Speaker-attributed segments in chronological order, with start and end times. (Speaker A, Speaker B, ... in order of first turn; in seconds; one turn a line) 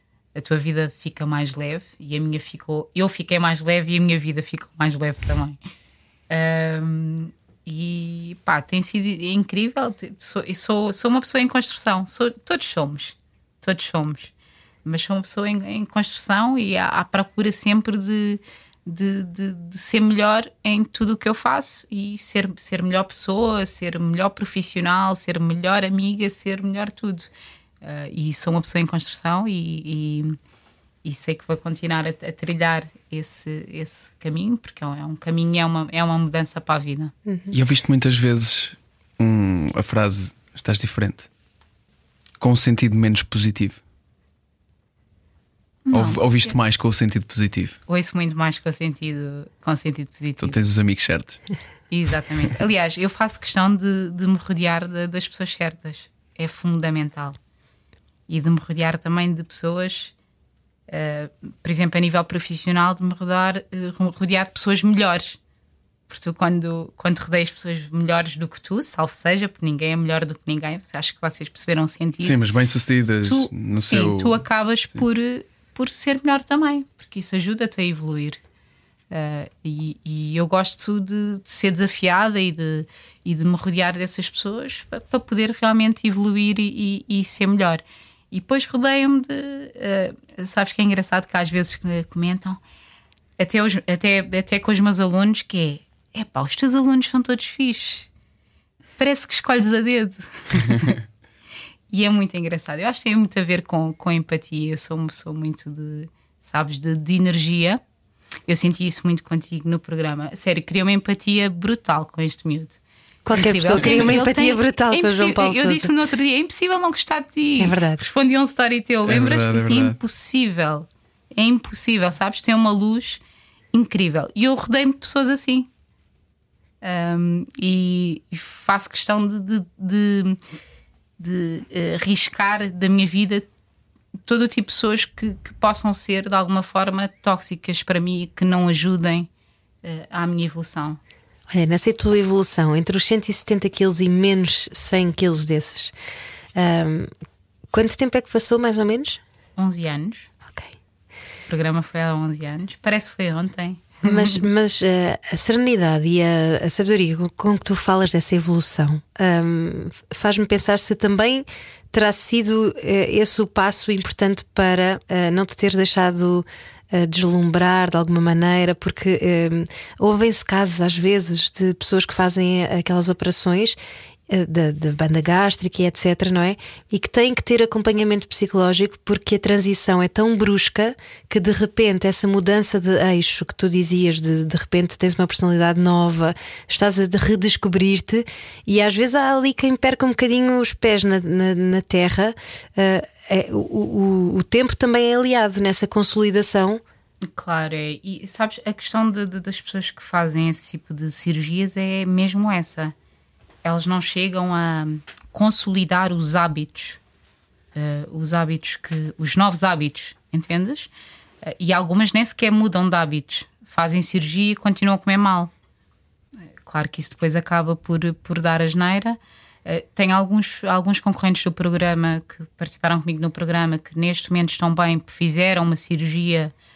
Speaker A: 0.3-5.6
Speaker A: 6.3-14.3
Speaker A: 14.8-27.3
Speaker A: 27.8-30.4
Speaker A: 31.0-37.1
Speaker B: 37.3-37.5
Speaker C: 37.5-41.3
Speaker C: 42.4-43.8
Speaker A: 45.9-46.2
Speaker C: 45.9-47.8
Speaker A: 47.9-50.6
Speaker C: 50.4-51.4
Speaker A: 51.9-57.4
Speaker A: 58.3-60.1
Speaker A: 60.9-65.4
Speaker A: 66.1-72.4
Speaker C: 72.2-74.4
Speaker A: 73.2-78.4
Speaker A: 79.1-92.6
Speaker A: 93.4-98.1
Speaker A: 99.0-101.0
Speaker A: 101.9-107.8
Speaker A: 108.5-112.8
Speaker B: 113.3-115.9
Speaker A: 113.3-123.2
Speaker B: 117.6-118.0
Speaker C: 119.1-120.0
Speaker A: 123.7-125.7
Speaker A: 126.8-130.4
Speaker A: 131.2-133.4
Speaker A: 134.3-139.3
Speaker A: 139.8-141.0
Speaker B: 141.5-145.9
Speaker B: 146.6-147.1
Speaker B: 147.7-149.2
Speaker A: 149.6-150.3
Speaker B: 150.5-150.7
Speaker A: 151.5-154.4
Speaker B: 154.0-173.8
Speaker B: 174.3-196.8
Speaker A: 197.3-202.9
Speaker A: 203.6-207.0
Speaker A: 207.8-210.9
Speaker A: 211.4-215.5
Speaker A: 216.6-226.5